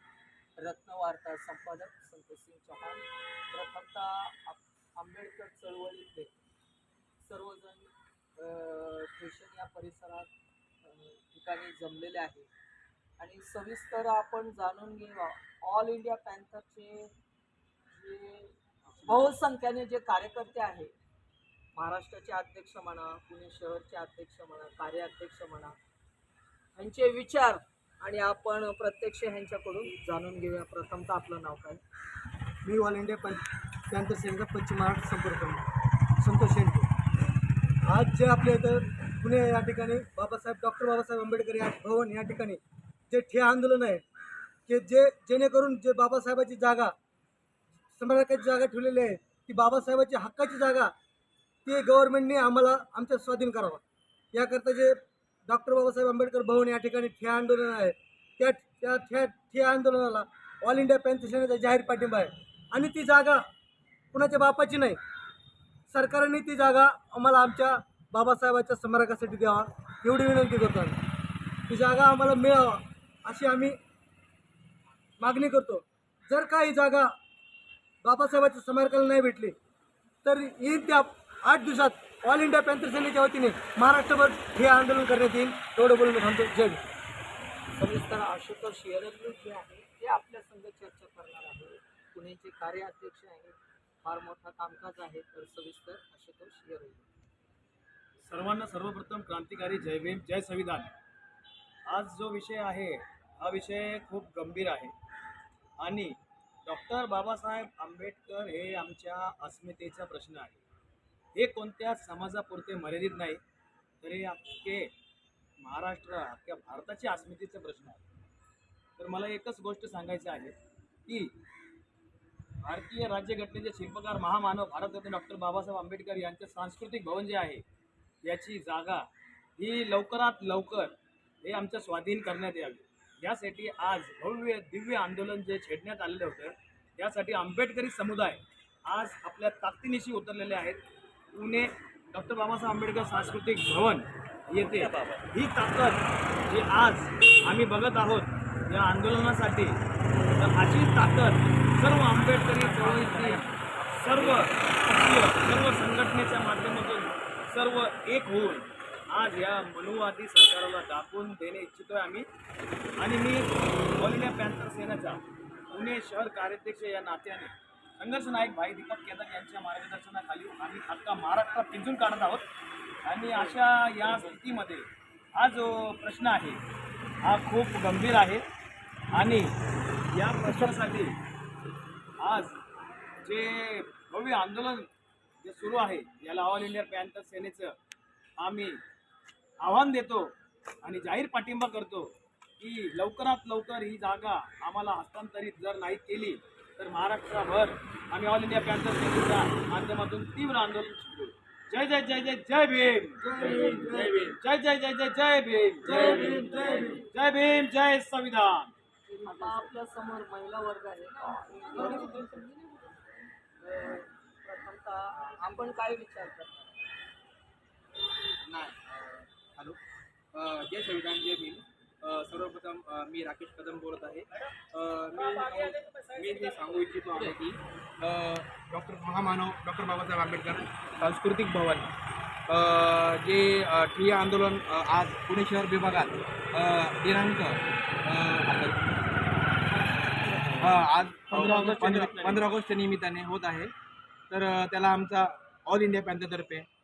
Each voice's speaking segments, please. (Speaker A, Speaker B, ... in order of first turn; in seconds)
Speaker A: 0.6-6.3, 7.2-10.3, 10.8-12.5, 13.2-17.1, 17.9-20.9, 21.7-25.8, 26.7-31.8, 87.7-97.1, 152.1-154.5, 209.1-212.7, 213.6-216.8
Speaker B: 32.6-35.6, 36.2-36.9, 37.9-44.0, 44.6-46.9, 47.9-50.9, 51.6-63.5, 64.1-65.0, 65.9-71.0, 71.7-73.8, 75.2-77.1, 78.0-79.5, 80.2-86.8, 203.2-204.3, 205.8-207.0, 211.8-212.1
Speaker C: 98.2-101.0, 101.9-104.9, 105.8-110.6, 111.3-113.4, 114.0-114.9, 115.6-118.0, 119.0-121.3, 122.6-127.6, 128.2-140.8, 141.3-149.8, 150.3-162.3, 163.0-172.5, 173.0-176.6, 177.2-178.4, 179.1-179.5, 180.1-181.2, 182.2-182.6, 183.2-184.9, 185.4-187.8, 188.4-188.8, 189.6-208.7, 225.1-227.3, 241.3-242.5
Speaker D: 218.4-219.8, 220.3-231.9, 232.5-238.9, 240.5-243.7, 244.3-246.7